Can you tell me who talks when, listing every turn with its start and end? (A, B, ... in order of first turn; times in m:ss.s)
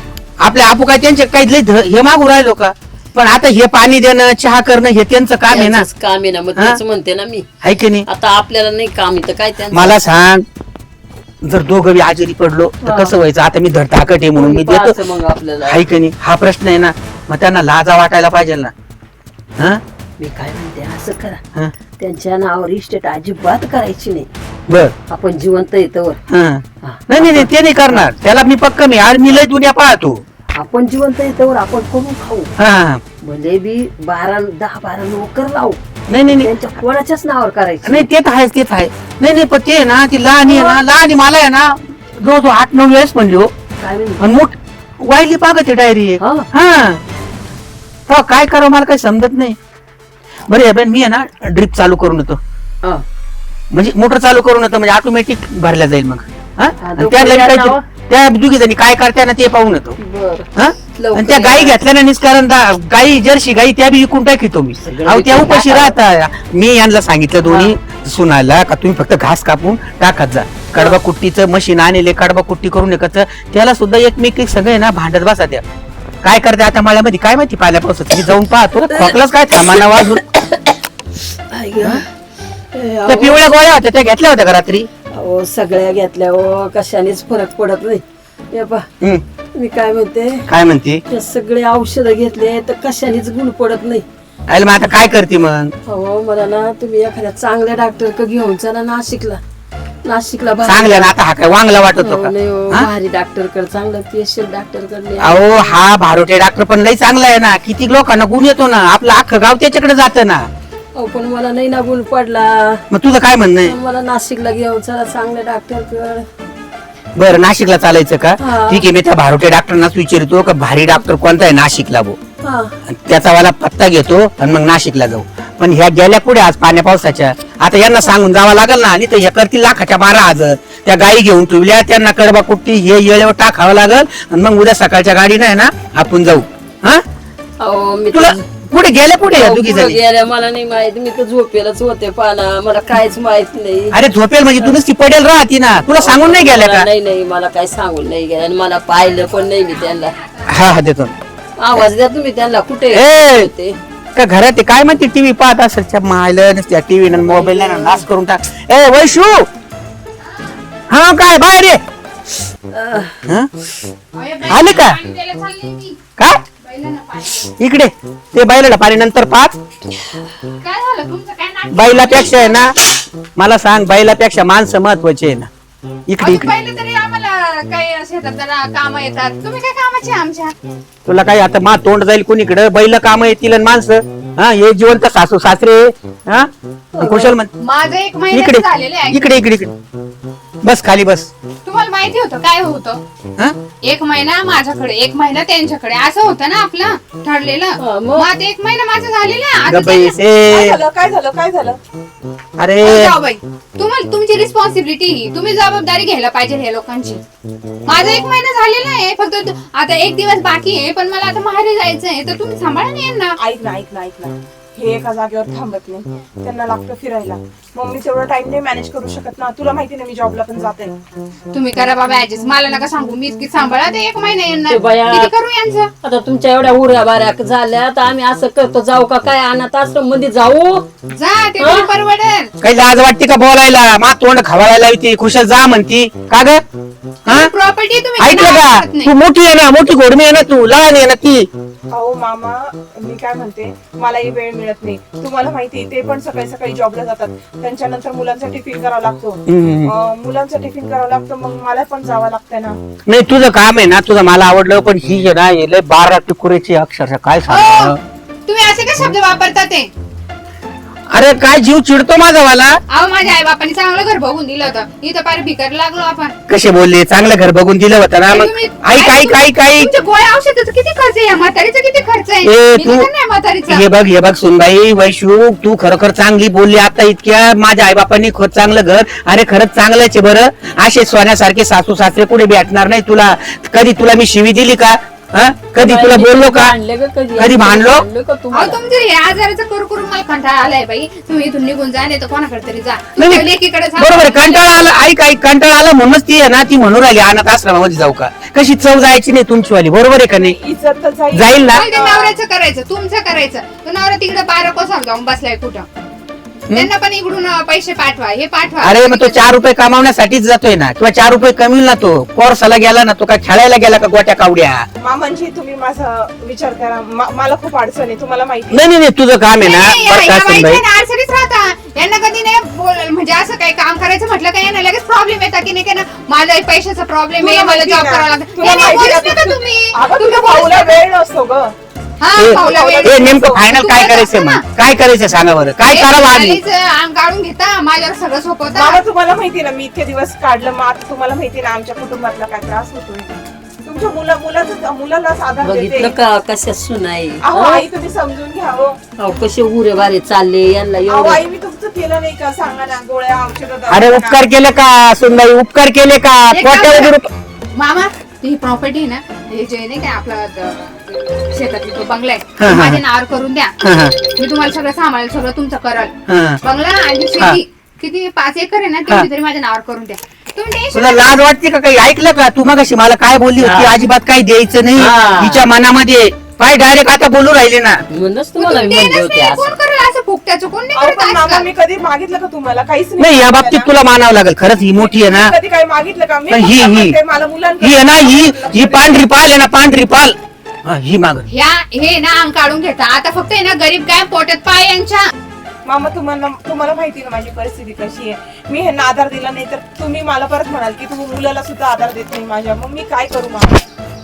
0:00.4-0:05.9 A
0:05.5-0:07.5 B
0:07.6-0:08.1 A
0:08.1-0:10.0 B
0:09.7-0:10.4 A
0:11.4-0:15.0 A
0:12.8-0:13.1 B
0:14.4-0:15.8 B
0:15.6-0:18.7 A
0:20.2-0:21.4 B
0:22.0-0:24.3 B
0:24.7-0:24.9 A
0:25.1-0:26.2 B
0:26.3-0:30.2 A
0:26.8-0:28.1 B
0:30.6-0:32.5 B
0:32.6-0:33.0 A
0:33.2-0:38.1 B
0:36.1-0:36.5 A
0:37.8-0:43.5 A
0:40.5-0:40.8 B
0:43.8-0:44.3 B
0:44.2-0:47.0 A
0:46.2-0:46.5 B
0:48.1-0:49.6 A
0:50.5-0:52.4 A
0:53.7-1:00.0 A
0:56.8-0:57.8 B
1:00.0-1:01.8 B
1:00.6-1:15.6 A
1:04.8-1:06.0 B
1:07.4-1:07.7 B
1:16.2-1:20.2 A
1:18.8-1:20.7 B
1:21.5-1:22.0 B
1:22.7-1:23.5 B
1:23.1-1:24.9 A
1:25.1-1:28.9 B
1:29.6-1:30.4 B
1:30.5-1:31.0 A
1:31.1-1:34.0 B
1:34.5-1:35.7 A
1:35.9-1:39.4 B
1:40.0-1:41.1 B
1:40.7-1:42.9 A
1:42.0-1:45.7 B
1:45.2-1:50.5 A
1:51.0-1:52.8 B
1:52.9-1:53.7 A
1:53.6-1:56.3 B
1:57.2-2:02.2 A
1:58.4-1:58.9 B
2:02.4-2:02.7 B
2:02.9-2:17.0 A
2:17.6-2:18.4 B
2:18.1-2:20.0 A
2:19.3-2:24.0 B
2:23.9-2:26.9 A
2:26.0-2:30.2 B
2:29.4-2:30.7 C
2:30.5-2:31.2 A
2:31.6-2:33.8 B
2:32.9-2:33.5 A
2:34.2-2:39.5 A
2:37.2-2:38.0 B
2:40.9-2:41.8 A
2:42.7-2:43.1 B
2:44.1-2:46.0 C
2:44.5-2:45.0 A
2:46.2-2:46.4 A
2:46.6-2:47.5 C
2:47.6-2:49.6 A
2:50.6-2:52.7 C
2:51.7-2:52.8 A
2:53.4-2:55.5 A
2:56.1-2:56.5 A
2:56.2-3:00.5 C
3:01.1-3:07.5 A
3:06.9-3:07.4 B
3:07.6-3:09.4 C
3:08.3-3:09.8 A
3:10.6-3:11.3 A
3:11.6-3:13.0 C
3:13.8-3:20.2 C
3:17.8-3:18.3 B
3:19.7-3:20.8 A
3:20.5-3:21.8 D
3:22.6-3:23.2 A
3:22.8-3:27.2 C
3:27.9-3:33.4 C
3:33.4-3:41.0 D
3:41.5-3:45.9 C
3:44.7-3:45.3 B
3:46.0-3:50.9 B
3:51.1-3:52.5 C
3:51.6-3:51.9 B
3:52.6-3:56.6 A
3:57.3-3:57.5 A
3:57.3-3:59.1 C
3:58.2-4:01.5 A
4:01.9-4:12.8 D
4:09.5-4:09.9 A
4:13.1-4:18.0 A
4:17.5-4:18.0 C
4:18.5-4:19.9 C
4:21.1-4:22.8 A
4:22.9-4:26.4 C
4:26.5-4:29.9 A
4:28.3-4:33.8 C
4:32.4-4:33.1 A
4:33.7-4:46.7 A
4:45.8-4:48.8 B
4:47.4-4:48.0 A
4:48.5-4:55.1 C
4:53.2-5:00.6 A
5:00.3-5:02.4 D
5:01.3-5:01.8 A
5:01.7-5:05.9 C
5:06.7-5:09.5 C
5:08.8-5:14.9 A
5:15.0-5:18.8 D
5:18.7-5:20.8 A
5:19.6-5:31.0 C
5:27.4-5:31.7 D
5:32.2-5:34.6 C
5:32.4-5:36.6 A
5:32.5-5:33.6 D
5:35.8-5:39.0 C
5:38.7-5:46.2 D
5:45.6-5:47.8 B
5:47.4-5:49.0 D
5:49.2-5:51.4 B
5:51.1-5:54.4 D
5:53.9-5:57.3 A
5:56.5-5:57.2 C
5:57.8-6:03.7 C
6:02.6-6:03.0 A
6:03.8-6:04.2 A
6:04.3-6:06.1 C
6:06.3-6:06.6 A
6:06.6-6:11.4 C
6:10.9-6:18.0 A
6:13.6-6:14.0 B
6:15.0-6:15.6 B
6:18.1-6:19.7 B
6:18.6-6:21.7 C
6:20.9-6:23.9 D
6:23.2-6:25.5 A
6:24.9-6:29.2 D
6:26.5-6:27.2 A
6:27.8-6:31.5 A
6:31.5-6:35.2 C
6:35.9-6:43.8 D